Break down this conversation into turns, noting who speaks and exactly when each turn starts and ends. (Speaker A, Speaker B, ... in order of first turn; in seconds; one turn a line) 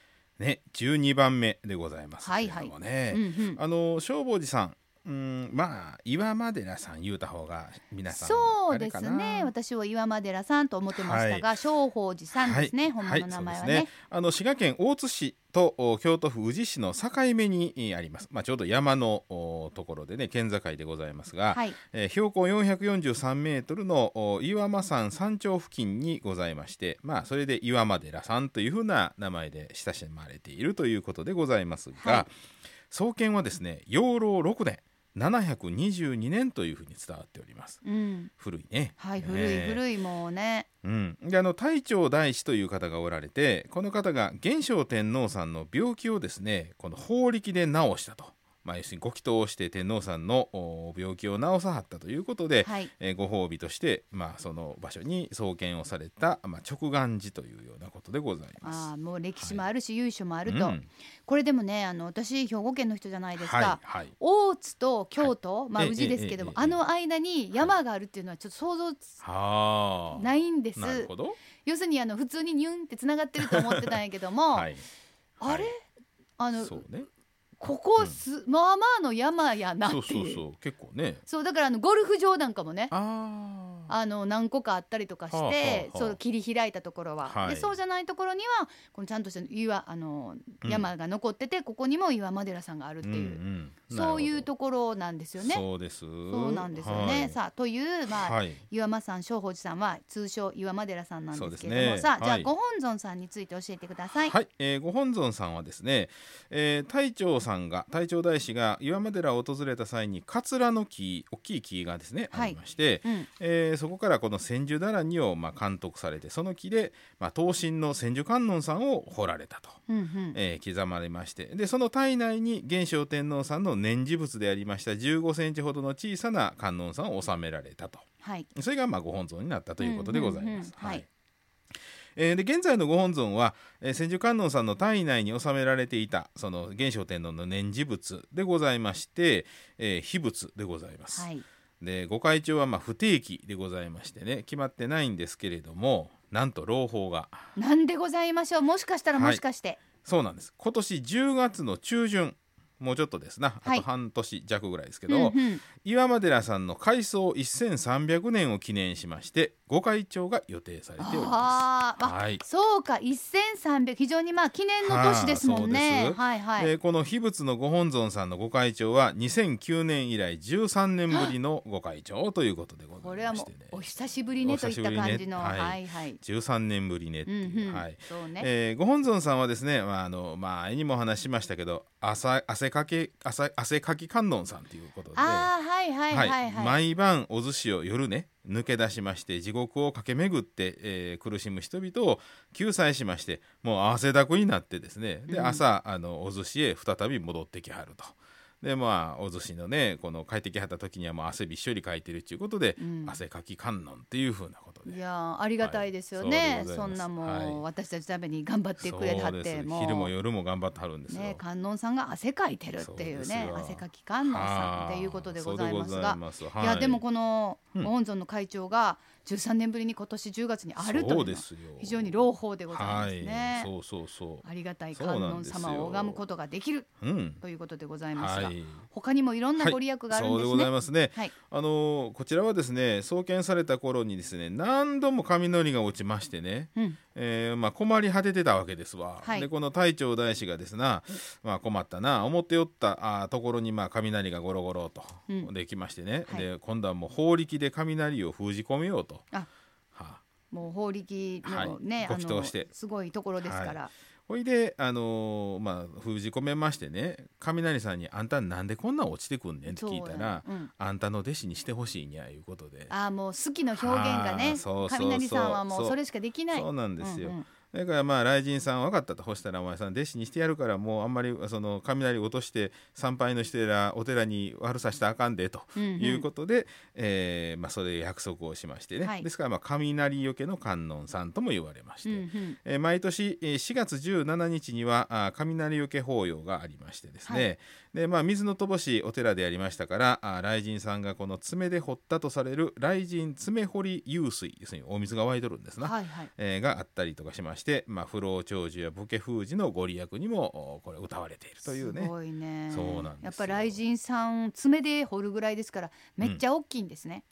Speaker A: 0.4-9.5
Speaker B: 2.2-3.6
Speaker B: 8.1-13.9
Speaker A: 10.9-11.5
Speaker A: 12.4-32.3
Speaker B: 21.5-21.8
Speaker B: 32.0-32.3
Speaker A: 32.9-37.8
Speaker B: 37.8-38.3
Speaker A: 38.4-39.8
Speaker B: 39.0-40.6
Speaker A: 40.8-58.9
Speaker B: 52.6-52.9
Speaker B: 58.6-69.2
Speaker A: 59.4-59.6
Speaker A: 60.5-60.9
Speaker A: 63.4-64.1
Speaker A: 65.2-66.8
Speaker A: 69.2-71.4
Speaker B: 70.2-74.7
Speaker A: 73.4-74.0
Speaker A: 74.5-74.8
Speaker B: 75.4-75.8
Speaker A: 75.4-75.7
Speaker B: 76.4-76.8
Speaker A: 76.5-77.1
Speaker B: 77.6-80.4
Speaker A: 79.8-81.2
Speaker B: 81.2-82.9
Speaker A: 82.9-83.9
Speaker B: 83.9-95.6
Speaker A: 85.3-86.2
Speaker A: 87.2-87.8
Speaker A: 90.6-90.9
Speaker A: 93.0-94.5
Speaker A: 95.4-97.4
Speaker B: 96.3-104.3
Speaker A: 98.1-98.6
Speaker A: 101.3-102.5
Speaker A: 104.1-119.8
Speaker B: 112.3-113.3
Speaker B: 119.9-120.4
Speaker A: 120.3-131.1
Speaker B: 128.2-128.5
Speaker B: 129.8-131.0
Speaker A: 132.2-141.3
Speaker B: 141.1-141.4
Speaker A: 141.8-147.5
Speaker B: 147.6-149.8
Speaker A: 149.1-149.4
Speaker A: 150.0-162.4
Speaker B: 155.1-155.6
Speaker B: 161.0-166.7
Speaker A: 164.8-173.8
Speaker B: 173.0-176.2
Speaker A: 174.4-185.5
Speaker B: 177.2-178.5
Speaker B: 185.1-186.8
Speaker A: 186.1-205.0
Speaker B: 195.3-195.6
Speaker B: 202.8-203.2
Speaker B: 204.9-210.1
Speaker A: 205.6-207.6
Speaker A: 208.8-211.4
Speaker B: 211.1-223.7
Speaker A: 212.8-217.0
Speaker A: 220.8-226.2
Speaker B: 224.4-231.3
Speaker A: 227.0-227.4
Speaker A: 228.1-228.8
Speaker A: 229.6-249.3
Speaker B: 239.2-239.5
Speaker A: 249.9-250.2
Speaker B: 250.5-253.9
Speaker A: 251.4-252.7
Speaker A: 253.4-262.9
Speaker B: 259.7-260.7
Speaker B: 262.9-267.5
Speaker A: 263.8-266.0
Speaker A: 266.5-302.1
Speaker B: 275.8-276.3
Speaker B: 279.0-279.2
Speaker B: 282.0-282.6
Speaker B: 295.8-296.3
Speaker B: 301.6-307.2
Speaker A: 302.7-303.8